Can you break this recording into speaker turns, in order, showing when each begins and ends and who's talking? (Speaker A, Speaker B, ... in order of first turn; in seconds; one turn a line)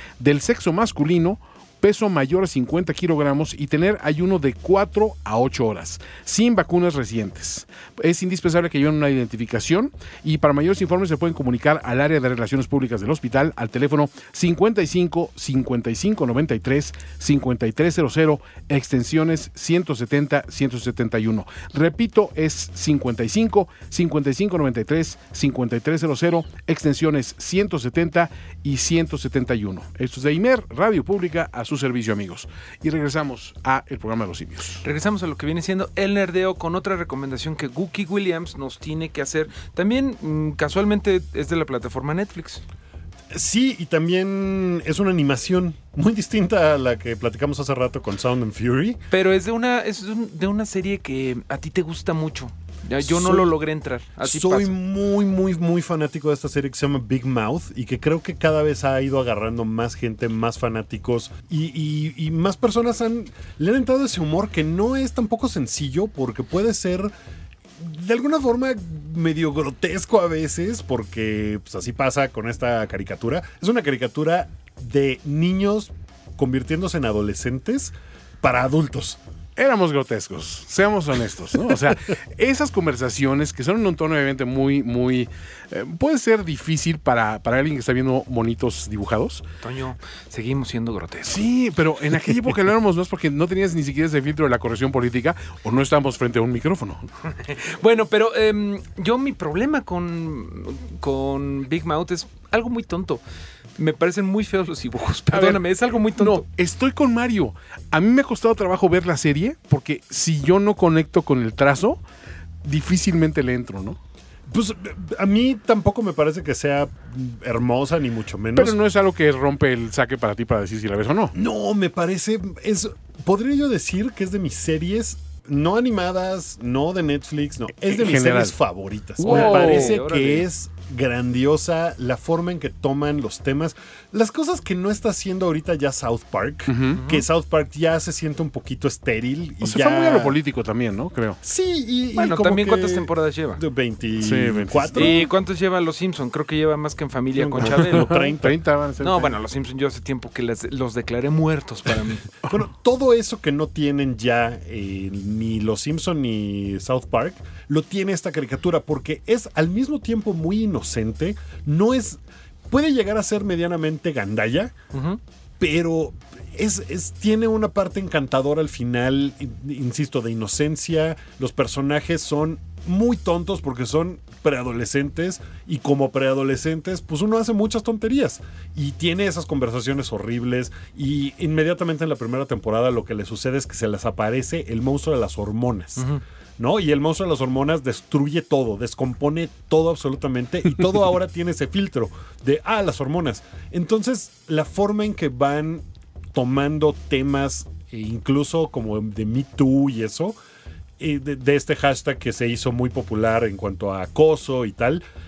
Speaker A: 0.2-34.8
Speaker B: 34.8-42.6
Speaker C: 43.3-49.0
Speaker B: 49.1-54.7
Speaker C: 53.0-53.5
Speaker C: 54.2-67.1
Speaker C: 67.8-79.2
Speaker A: 79.6-89.4
Speaker B: 89.6-91.4
Speaker A: 91.2-97.1
Speaker B: 97.5-103.2
Speaker B: 103.8-106.4
Speaker A: 105.3-112.0
Speaker A: 112.6-114.0
Speaker C: 114.5-118.7
Speaker A: 118.5-121.3
Speaker C: 121.3-140.3
Speaker A: 127.8-128.5
Speaker A: 129.2-130.0
Speaker B: 129.2-130.5
Speaker A: 136.7-137.0
Speaker B: 136.9-137.2
Speaker A: 139.6-141.4
Speaker C: 141.4-145.3
Speaker B: 142.2-143.6
Speaker A: 144.2-145.2
Speaker B: 144.9-148.3
Speaker C: 147.3-148.6
Speaker A: 147.6-149.3
Speaker B: 149.0-152.2
Speaker C: 152.5-164.7
Speaker B: 164.9-165.2
Speaker C: 165.6-186.0
Speaker C: 186.6-200.4
Speaker C: 201.0-205.0